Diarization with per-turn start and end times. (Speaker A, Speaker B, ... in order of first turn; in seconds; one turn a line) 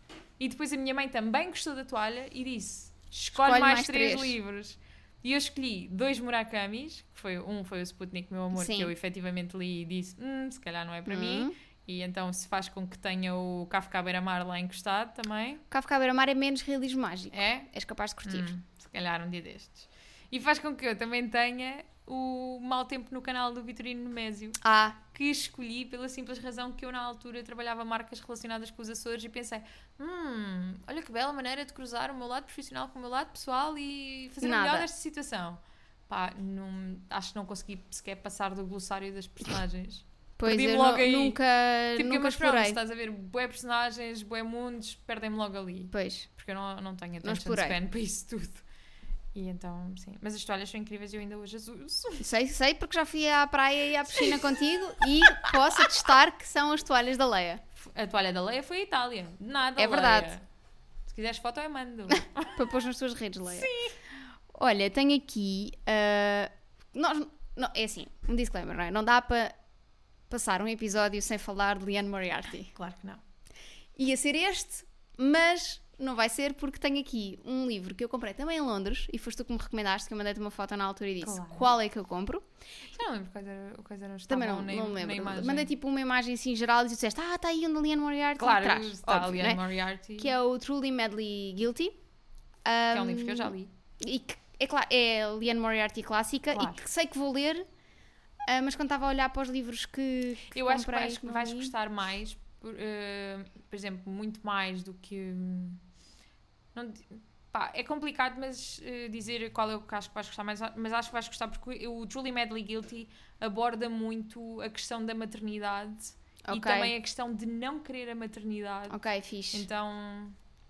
Speaker A: 0.4-15.6
Speaker B: 3.3-4.4
Speaker B: 8.5-8.9
Speaker B: 11.1-11.5
Speaker B: 15.7-18.5
Speaker A: 17.3-17.7
Speaker A: 18.2-41.4
Speaker B: 24.6-25.0
Speaker B: 34.4-34.9
Speaker B: 40.4-42.8
Speaker A: 42.0-48.6
Speaker B: 45.9-46.3
Speaker B: 47.2-47.8
Speaker A: 49.3-52.2
Speaker B: 52.2-57.6
Speaker A: 57.8-60.5
Speaker B: 59.8-60.3
Speaker A: 61.1-62.6
Speaker B: 62.5-63.8
Speaker A: 63.5-63.9
Speaker B: 64.5-69.5
Speaker B: 70.3-72.7
Speaker A: 72.7-73.2
Speaker B: 74.0-82.4
Speaker A: 81.2-81.7
Speaker A: 82.9-85.7
Speaker B: 84.3-89.6
Speaker A: 88.4-90.3
Speaker B: 90.2-92.0
Speaker B: 92.6-97.6
Speaker A: 92.9-93.7
Speaker A: 96.5-96.8
Speaker B: 98.5-101.7
Speaker A: 100.5-105.8
Speaker A: 106.7-119.0
Speaker B: 116.4-116.9
Speaker B: 118.9-119.7
Speaker A: 119.5-120.4